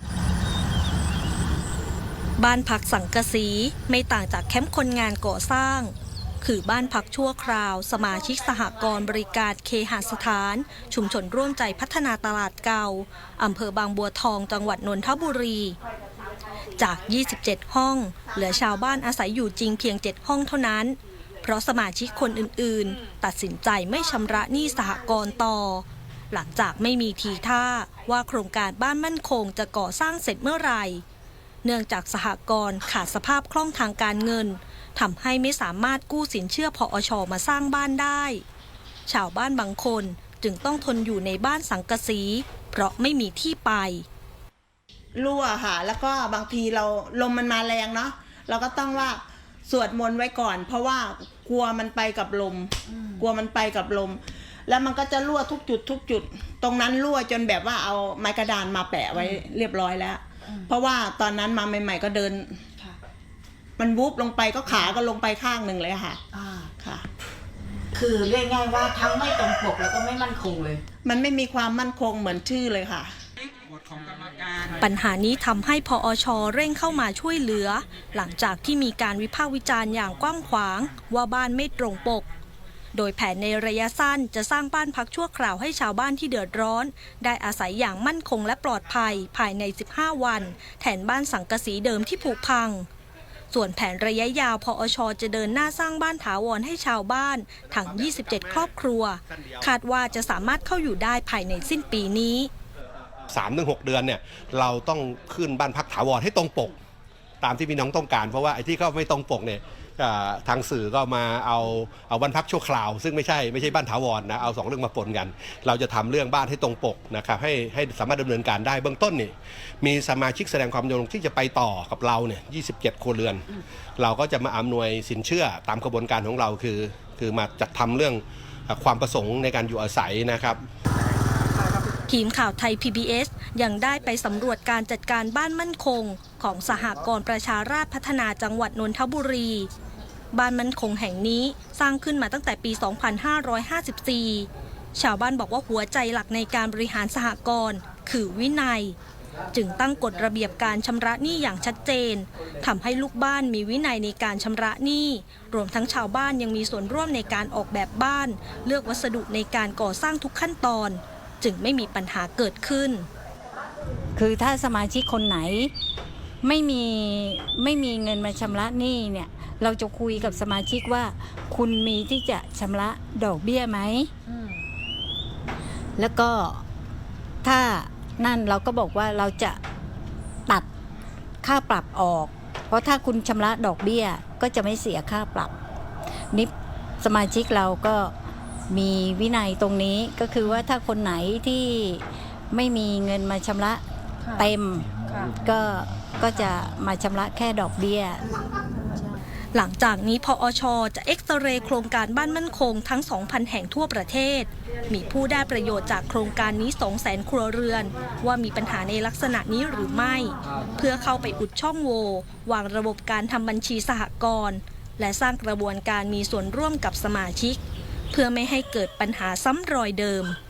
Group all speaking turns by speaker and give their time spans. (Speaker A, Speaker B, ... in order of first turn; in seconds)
Speaker A: 2.4-15.8, 16.8-31.0, 31.6-38.4, 39.1-44.1, 74.8-82.3, 82.9-92.9, 93.5-102.5, 132.1-139.7, 140.3-149.0, 149.5-163.1, 199.5-217.6, 218.1-220.4
Speaker B: 45.1-62.6, 63.8-66.2, 66.8-67.1, 71.0-73.1
Speaker C: 52.9-53.2, 59.1-59.4, 64.7-65.0, 66.3-66.7, 67.9-70.8
Speaker D: 97.7-98.7, 99.4-99.7, 103.3-106.8, 107.4-130.6
Speaker E: 164.2-165.7, 166.4-174.1, 176.0-176.6, 177.4-179.6, 181.4-185.5, 186.3-188.1, 188.7-193.8, 194.4-198.2